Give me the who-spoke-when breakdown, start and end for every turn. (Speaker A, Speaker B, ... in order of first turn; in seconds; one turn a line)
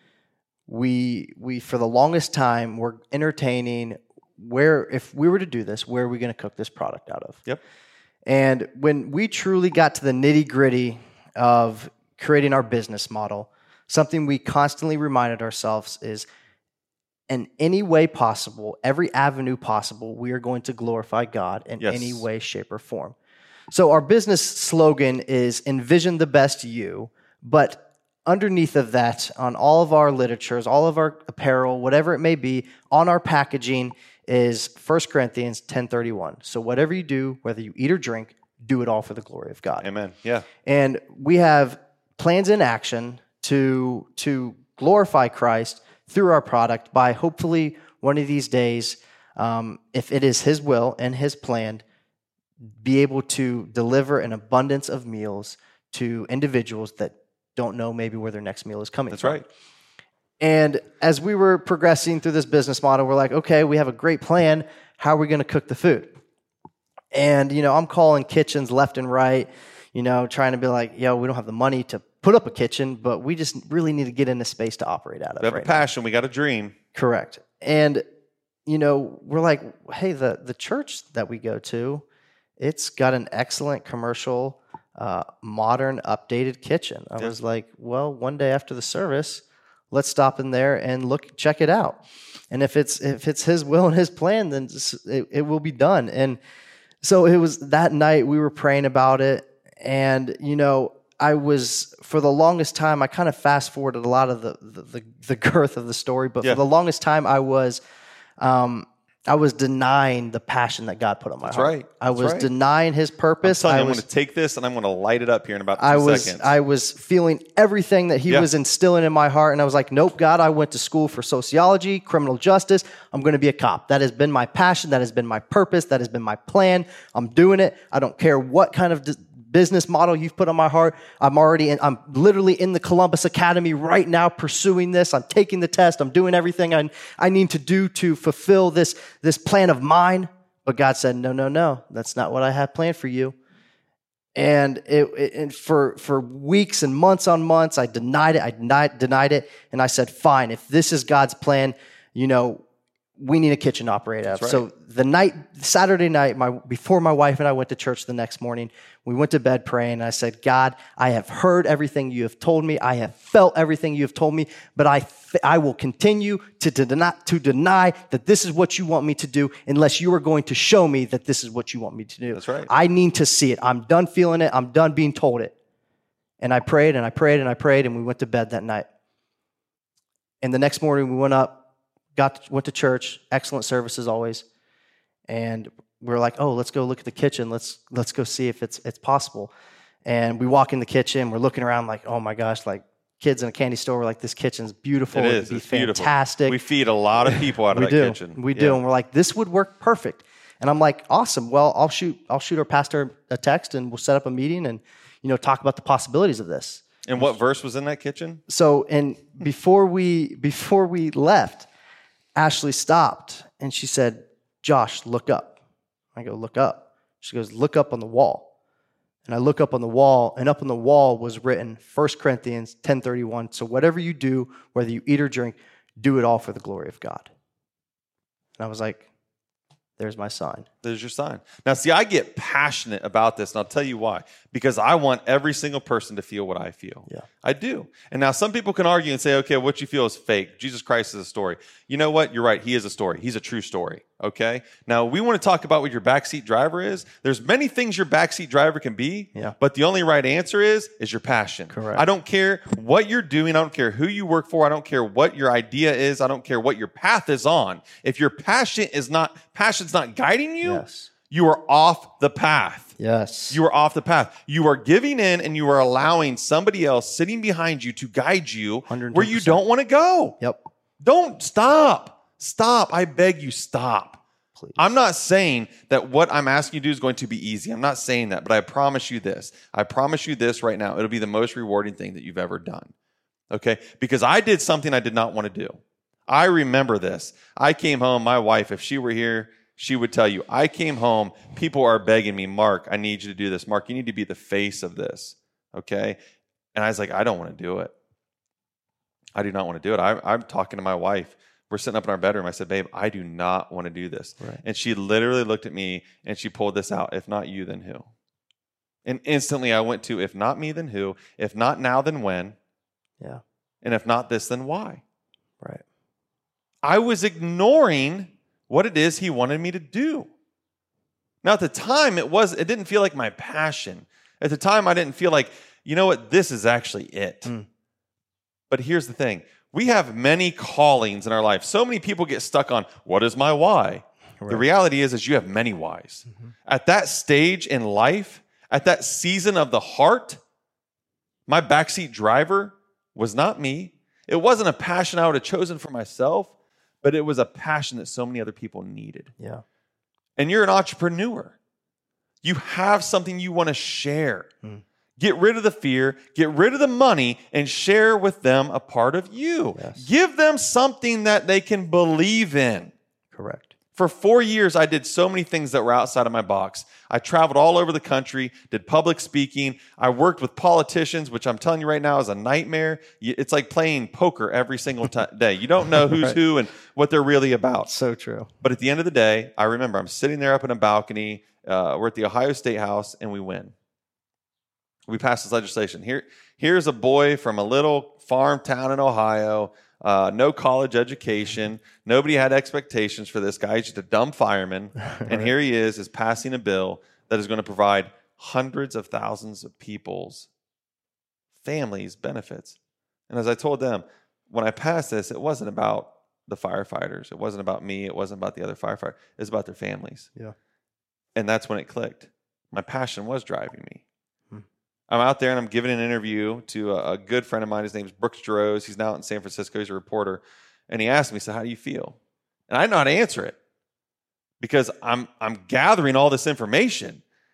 Speaker A: 0.7-7.4
Speaker A: 8.2-16.2
Speaker A: 17.3-23.1
Speaker B: 21.8-22.2
Speaker A: 23.7-39.9
Speaker B: 39.8-40.5
Speaker A: 40.6-51.8
Speaker A: 52.8-59.4
Speaker B: 59.1-59.4
Speaker A: 60.4-66.2
Speaker A: 67.1-75.8
Speaker B: 75.4-76.8
Speaker A: 76.9-78.0
Speaker A: 78.7-82.0
Speaker A: 82.6-92.0
Speaker A: 92.5-96.4
Speaker A: 97.0-107.8
Speaker A: 108.4-114.0
Speaker B: 111.4-112.5
Speaker B: 113.4-116.5
Speaker A: 115.8-143.3
Speaker A: 144.3-152.6
Speaker A: 153.2-175.5
Speaker B: 154.3-154.6
Speaker B: 172.3-172.7
Speaker A: 176.4-178.9
Speaker A: 180.4-181.6
Speaker A: 182.2-184.4
Speaker A: 185.3-189.5
Speaker A: 190.0-196.6
Speaker B: 195.1-198.8
Speaker A: 197.2-207.3
Speaker B: 207.0-208.4
Speaker A: 208.5-211.7
Speaker A: 212.3-215.6
Speaker A: 216.2-218.5
Speaker A: 219.2-227.3
Speaker A: 228.6-229.0
Speaker A: 230.0-230.7
Speaker B: 230.8-263.0
Speaker A: 251.7-252.0
Speaker A: 260.6-261.1
Speaker A: 263.0-263.6
Speaker B: 263.5-270.4
Speaker A: 268.9-269.6
Speaker B: 271.0-274.2
Speaker B: 274.8-282.9
Speaker B: 283.5-296.2
Speaker B: 296.7-297.9
Speaker B: 299.4-308.1
Speaker B: 309.0-312.5
Speaker B: 313.8-315.0
Speaker B: 316.8-320.3
Speaker B: 321.4-327.5
Speaker B: 328.7-340.4
Speaker A: 334.4-334.6
Speaker B: 341.5-346.5
Speaker B: 347.0-349.3
Speaker B: 350.4-351.6
Speaker B: 352.4-354.5
Speaker B: 355.2-362.9
Speaker A: 359.8-360.1
Speaker A: 363.3-363.7
Speaker B: 363.9-377.9
Speaker A: 376.0-376.4
Speaker A: 377.8-378.5
Speaker B: 378.6-383.7
Speaker B: 385.1-400.5
Speaker A: 395.0-395.5
Speaker B: 401.6-402.8
Speaker B: 403.3-410.3
Speaker B: 411.3-414.0
Speaker B: 415.1-422.1
Speaker B: 422.7-423.6
Speaker B: 424.6-427.2